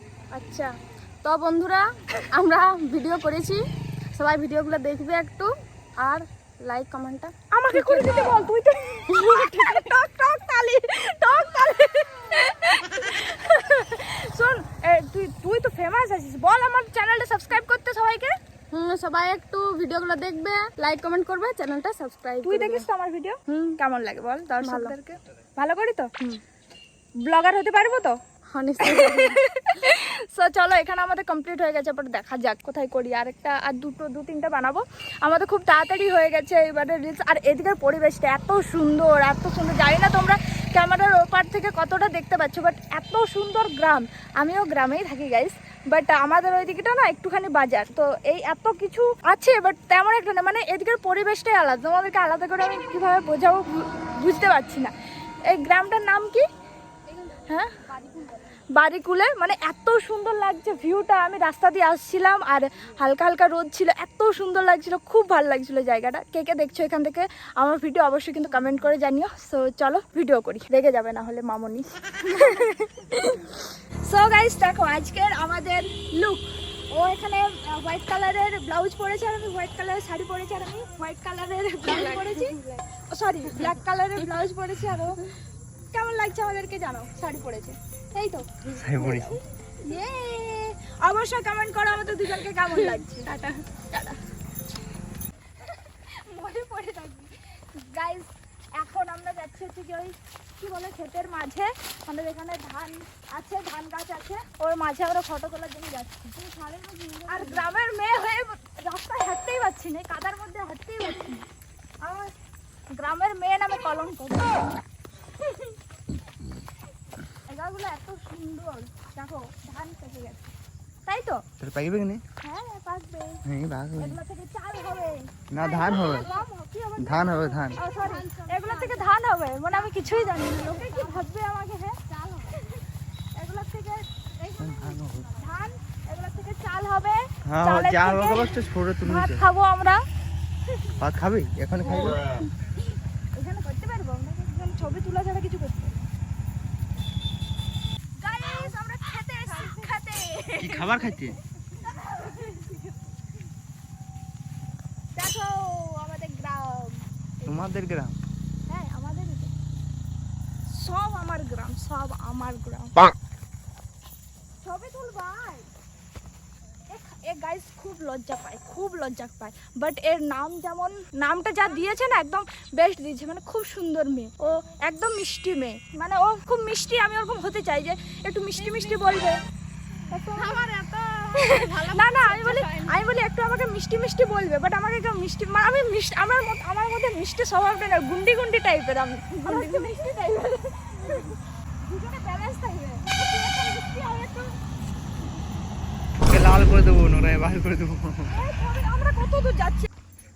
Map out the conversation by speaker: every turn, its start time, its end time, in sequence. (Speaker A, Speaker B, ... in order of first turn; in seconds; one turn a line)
Speaker A: 0.3-8.3
Speaker B: 7.5-18.3
Speaker A: 9.1-9.9
Speaker A: 18.7-22.9
Speaker B: 22.4-26.1
Speaker A: 23.5-23.8
Speaker A: 24.6-24.9
Speaker B: 27.2-28.2
Speaker A: 28.5-29.8
Speaker B: 28.8-54.9
Speaker B: 55.5-56.5
Speaker A: 57.1-58.6
Speaker B: 57.5-57.7
Speaker B: 58.7-82.5
Speaker A: 81.8-82.8
Speaker B: 83.1-85.3
Speaker B: 85.9-93.3
Speaker C: 88.8-89.4
Speaker A: 92.7-93.6
Speaker B: 93.9-94.2
Speaker B: 95.6-106.3
Speaker A: 106.3-107.7
Speaker B: 107.3-111.4
Speaker B: 112.0-112.3
Speaker B: 112.9-114.6
Speaker B: 117.5-120.5
Speaker B: 121.0-121.4
Speaker C: 121.6-122.2
Speaker B: 122.4-123.4
Speaker C: 123.4-124.2
Speaker B: 124.0-132.0
Speaker C: 125.5-126.3
Speaker A: 125.6-126.5
Speaker C: 127.0-127.8
Speaker A: 127.7-129.2
Speaker A: 129.7-131.3
Speaker A: 132.1-132.8
Speaker B: 133.3-134.2
Speaker A: 134.4-135.2
Speaker C: 134.6-135.3
Speaker B: 135.3-140.0
Speaker C: 137.4-139.4
Speaker C: 141.0-142.2
Speaker B: 141.8-142.2
Speaker B: 143.3-146.1
Speaker B: 148.2-151.2
Speaker A: 148.3-148.8
Speaker A: 149.4-149.9
Speaker C: 150.6-151.3
Speaker B: 151.8-152.9
Speaker B: 155.1-157.7
Speaker C: 157.4-158.1
Speaker B: 158.7-159.5
Speaker B: 160.7-162.9
Speaker B: 164.6-165.7
Speaker B: 166.9-179.4
Speaker A: 178.5-179.3
Speaker A: 179.9-183.0
Speaker B: 180.1-180.7
Speaker B: 181.4-194.5
Speaker A: 189.4-190.2
Speaker A: 191.0-191.3
Speaker C: 196.2-198.3
Speaker B: 198.3-199.9